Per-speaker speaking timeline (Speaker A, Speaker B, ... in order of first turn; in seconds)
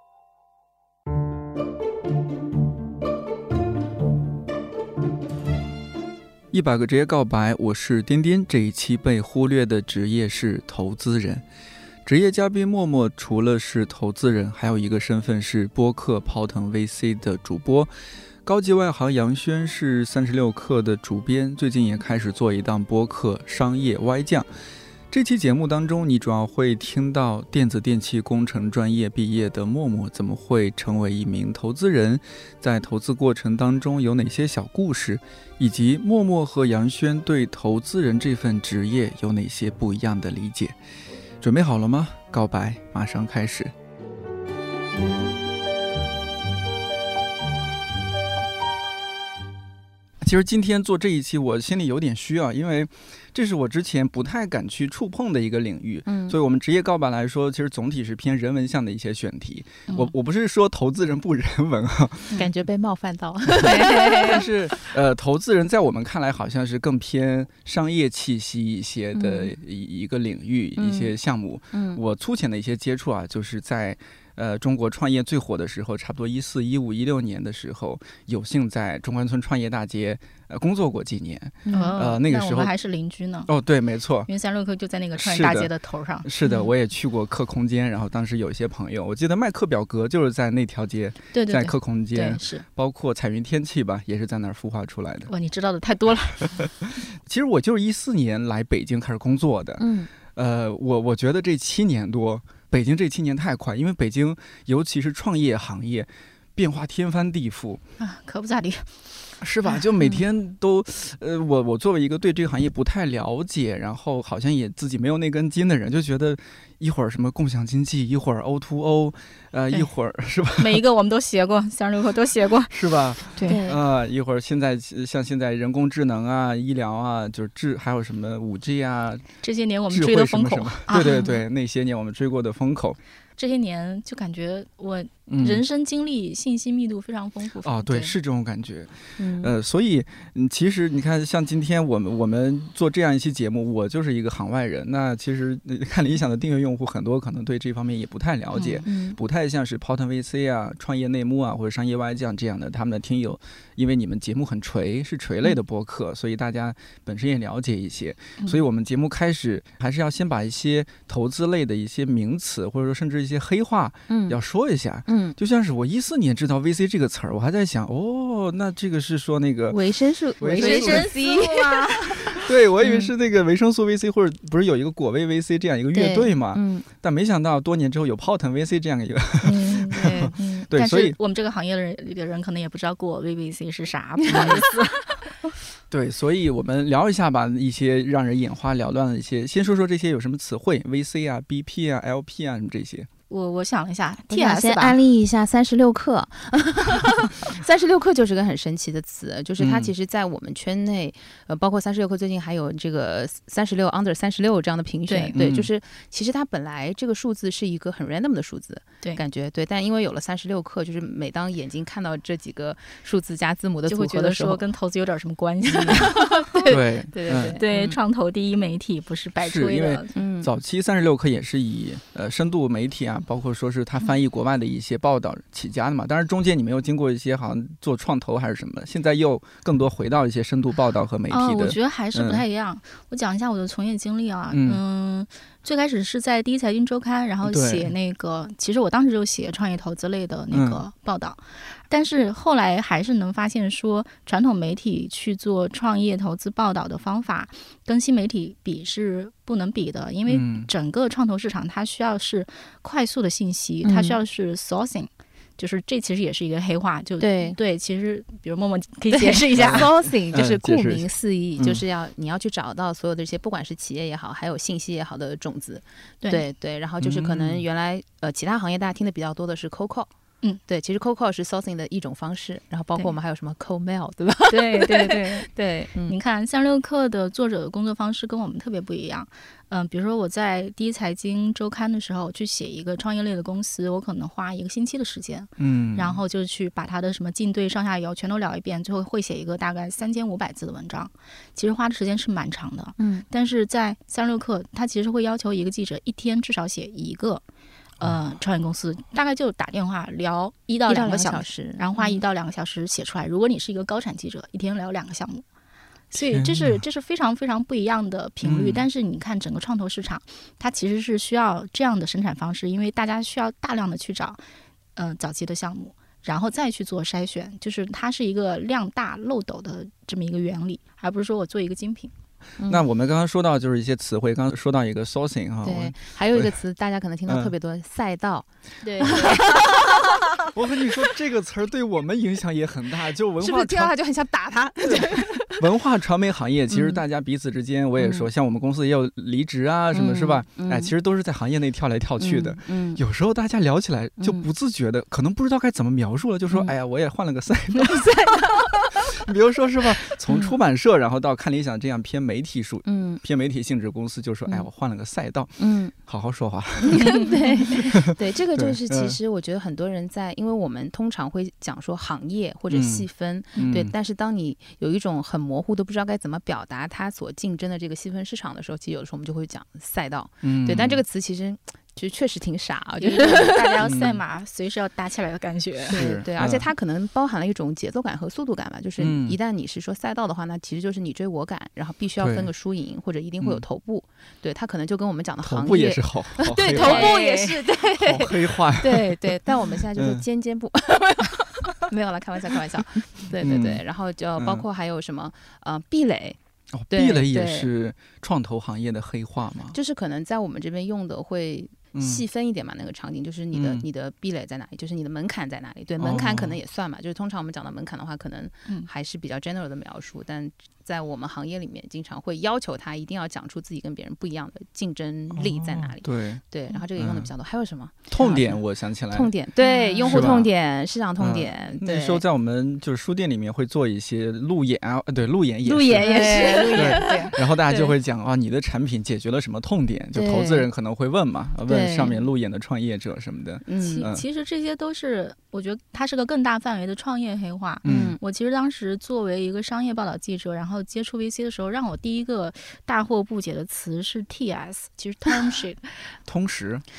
Speaker A: 6.5-11.4, 12.1-17.9, 18.4-24.5, 25.1-40.7, 41.4-43.7, 50.2-62.4, 63.6-82.7, 83.5-84.3, 85.2-85.7, 86.2-95.3, 96.5-107.8, 109.4-120.8, 122.7-129.3, 129.9-133.0, 135.3-135.6, 137.6-169.8, 170.4-171.1, 172.3-181.2, 184.3-184.6, 185.9-193.1, 199.6-199.9, 205.3-205.7, 216.7-217.6, 219.4-232.4, 234.5-234.8, 237.4-237.9, 240.5-240.8, 250.3-250.7, 259.6-261.8, 267.0-267.6, 285.6-286.2, 306.1-306.8, 308.4-308.9, 322.7-326.6, 327.3-327.5, 330.5-333.9, 334.8-348.2, 348.9-357.1, 357.7-359.2, 362.7-363.9, 370.4-371.0, 373.8-374.2, 375.9-376.7, 379.0-379.4, 382.2-382.5, 385.4-387.1, 387.9-390.3, 393.4-393.8, 394.4-394.6, 396.7-399.8, 401.9-402.2, 403.5-403.9, 406.0-406.6, 415.3-416.4, 417.0-417.3, 418.1-419.3, 420.1-420.5, 421.2-434.2, 437.8-438.2, 446.3-446.8
Speaker B: 56.1-56.4, 62.3-64.5, 69.1-69.5, 70.8-71.1, 71.7-72.0, 81.6-82.0, 99.8-100.1, 123.5-123.8, 139.2-139.5, 148.8-149.2, 164.1-164.4, 165.1-165.4, 169.7-173.1, 175.9-176.9, 179.9-180.3, 184.3-184.7, 194.3-214.7, 215.7-218.0, 220.1-220.5, 253.8-254.2, 257.2-257.6, 259.1-270.1, 270.7-276.2, 293.0-293.2, 300.9-302.2, 325.6-330.3, 333.4-335.7, 336.7-337.0, 338.0-338.3, 339.9-340.9, 342.2-343.0, 344.2-344.5, 347.9-348.7, 350.3-350.6, 352.9-353.2, 355.6-355.9, 356.8-374.1, 375.9-396.4, 396.9-397.7, 399.7-422.2, 425.7-427.9, 430.1-430.7, 431.7-432.2, 433.7-434.1, 437.9-438.2
Speaker C: 81.7-83.5, 84.3-86.3, 91.3-92.7, 95.3-96.7, 108.0-109.0, 120.6-123.6, 129.4-131.4, 133.4-138.2, 170.5-172.4, 179.4-185.1, 193.3-195.0, 205.1-205.4, 213.9-216.8, 217.5-220.2, 231.3-259.9, 274.5-275.5, 276.1-297.4, 298.0-305.4, 306.1-314.4, 315.0-322.1, 328.8-330.1, 356.9-357.4, 373.0-376.0, 386.7-387.7, 419.6-420.3, 425.9-427.4, 433.8-445.9